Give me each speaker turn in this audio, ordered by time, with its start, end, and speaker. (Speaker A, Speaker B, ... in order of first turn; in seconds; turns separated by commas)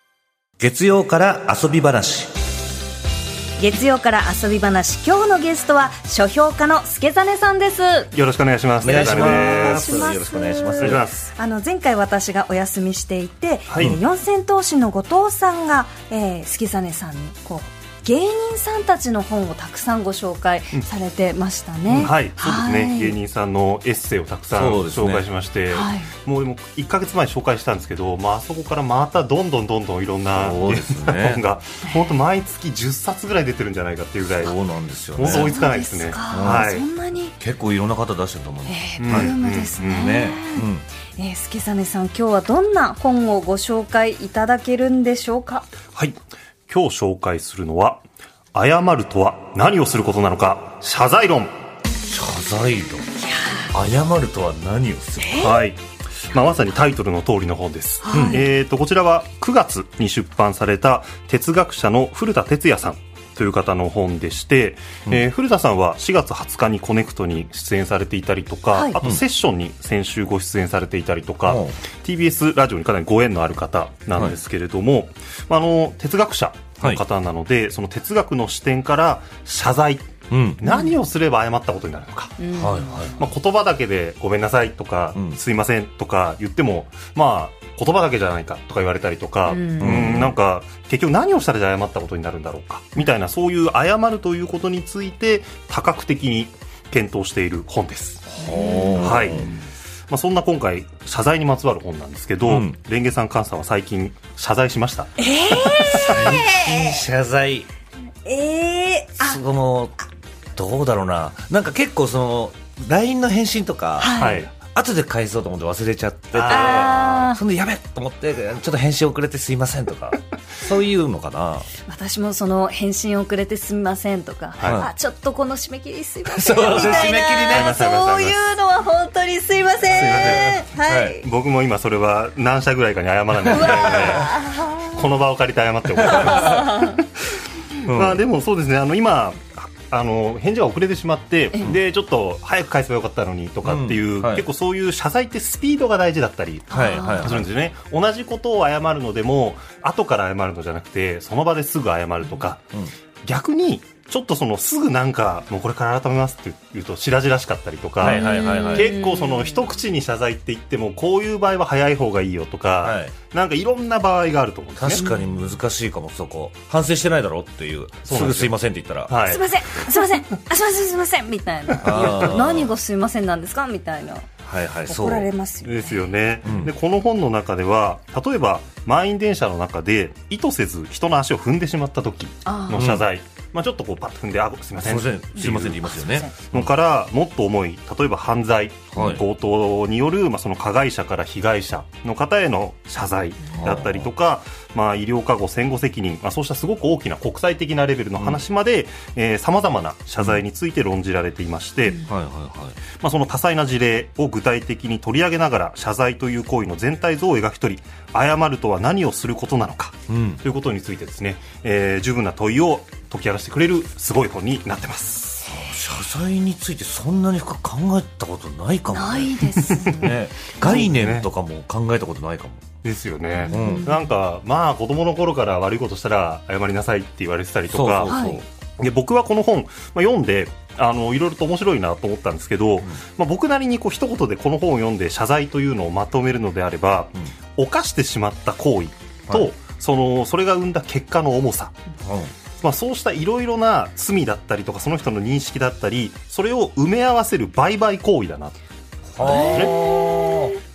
Speaker A: 0.6-2.3, Speaker B: 3.6-8.1, Speaker C: 8.1-10.1, Speaker A: 8.8-11.0, Speaker B: 8.8-23.1, Speaker C: 10.8-11.3, Speaker C: 13.7-14.0, Speaker C: 21.9-34.5, Speaker A: 24.5-25.2, Speaker B: 25.7-26.1, Speaker A: 30.3-31.4, Speaker A: 34.4-35.5, Speaker C: 35.1-36.8, Speaker B: 35.2-37.3, Speaker A: 36.3-36.7, Speaker A: 37.4-40.8, Speaker B: 38.7-40.6, Speaker C: 39.0-40.2, Speaker B: 41.2-45.7, Speaker C: 45.9-48.0, Speaker C: 48.5-51.5, Speaker A: 52.1-53.1, Speaker B: 53.2-53.7, Speaker A: 53.7-55.5, Speaker B: 55.2-55.6, Speaker C: 55.4-82.5, Speaker B: 58.0-58.5, Speaker A: 58.1-58.4, Speaker A: 71.5-71.8, Speaker A: 80.3-80.6, Speaker B: 80.6-80.9, Speaker B: 82.4-83.1, Speaker A: 82.5-83.3, Speaker C: 83.2-98.3, Speaker B: 89.5-90.1, Speaker A: 89.8-90.3, Speaker A: 98.3-99.5, Speaker B: 98.4-99.5, Speaker C: 99.0-99.5, Speaker C: 100.1-106.4, Speaker A: 102.5-102.7, Speaker B: 105.2-106.9, Speaker A: 105.9-107.7, Speaker B: 108.2-109.4, Speaker A: 109.2-110.0, Speaker A: 110.5-121.7, Speaker B: 114.0-114.5, Speaker C: 114.2-114.5, Speaker C: 116.3-117.0, Speaker B: 116.5-117.4, Speaker B: 121.8-131.2, Speaker C: 124.6-124.9, Speaker A: 126.3-127.7, Speaker C: 126.5-128.4, Speaker C: 129.8-130.6, Speaker A: 130.9-131.2, Speaker C: 131.2-152.6, Speaker B: 133.5-134.9, Speaker A: 133.6-134.1, Speaker B: 136.1-137.0, Speaker A: 137.8-138.2, Speaker A: 143.6-144.4, Speaker B: 146.7-147.3, Speaker A: 146.7-147.5, Speaker C: 153.2-165.0, Speaker A: 158.0-158.9, Speaker B: 158.0-159.5, Speaker A: 162.8-163.1, Speaker A: 164.8-169.1, Speaker B: 165.0-165.3, Speaker C: 168.1-169.4, Speaker B: 169.2-174.3, Speaker C: 171.8-172.3, Speaker A: 171.8-172.7, Speaker A: 174.4-175.3, Speaker B: 174.9-176.1, Speaker C: 175.6-202.1, Speaker A: 176.4-176.7, Speaker B: 182.4-182.9, Speaker A: 182.7-183.0, Speaker A: 184.8-186.6, Speaker B: 185.9-186.3, Speaker A: 188.9-189.2, Speaker A: 193.5-194.1, Speaker A: 202.1-202.8, Speaker C: 202.9-215.5, Speaker A: 210.1-210.4, Speaker A: 215.4-222.6, Speaker B: 218.9-220.1, Speaker C: 220.6-221.3, Speaker C: 222.8-228.2, Speaker B: 223.3-224.1, Speaker A: 223.5-223.9, Speaker A: 227.7-228.4, Speaker B: 228.1-228.4, Speaker C: 228.8-241.8, Speaker A: 242.0-242.3, Speaker C: 242.6-248.6, Speaker A: 249.2-250.5, Speaker B: 249.2-250.5, Speaker C: 249.5-249.8